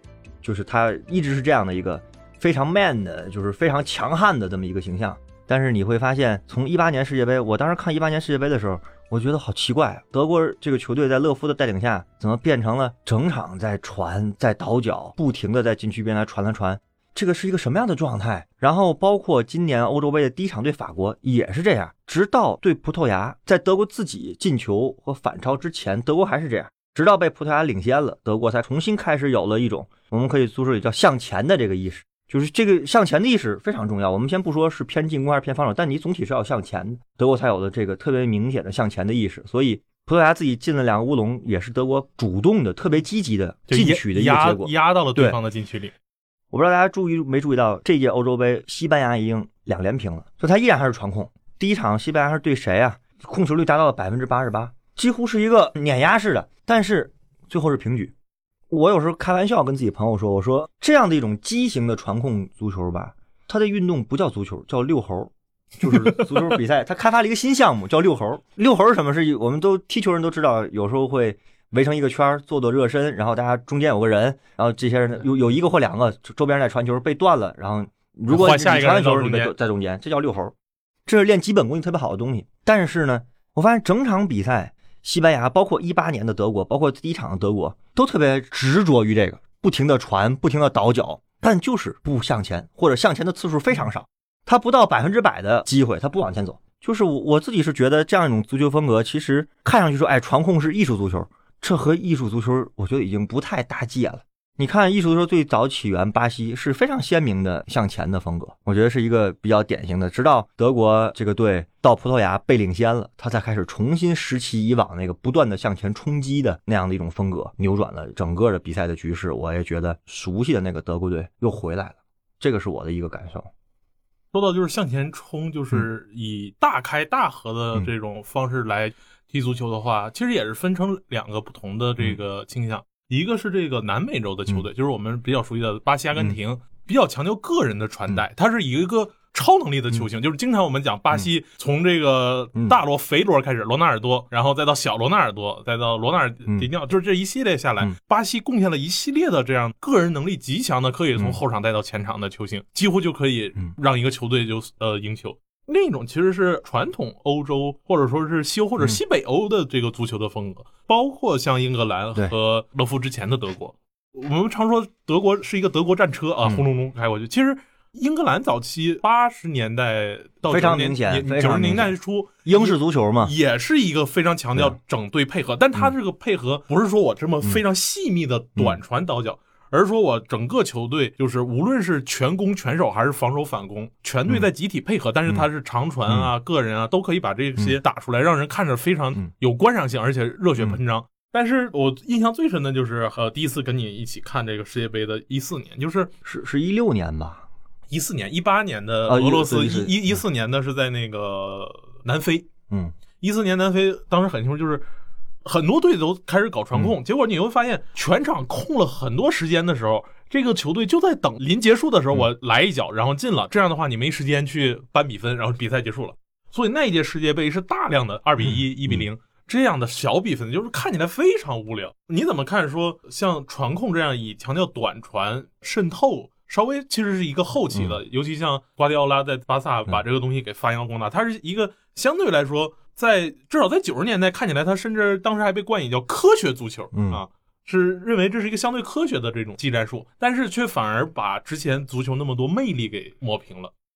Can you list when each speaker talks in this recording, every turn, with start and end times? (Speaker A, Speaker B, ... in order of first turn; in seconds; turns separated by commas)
Speaker A: 0.4-45.4, Speaker B: 43.7-45.9, Speaker A: 46.5-58.1, Speaker A: 58.7-80.5, Speaker B: 78.3-79.5, Speaker A: 81.1-123.5, Speaker B: 124.3-196.1, Speaker A: 170.5-173.3, Speaker A: 186.1-186.3, Speaker A: 196.2-197.5, Speaker B: 197.9-202.5, Speaker A: 199.1-200.2, Speaker A: 202.7-202.9, Speaker B: 203.2-204.9, Speaker B: 205.4-243.7, Speaker A: 218.4-219.0, Speaker A: 227.7-228.0, Speaker A: 236.9-237.2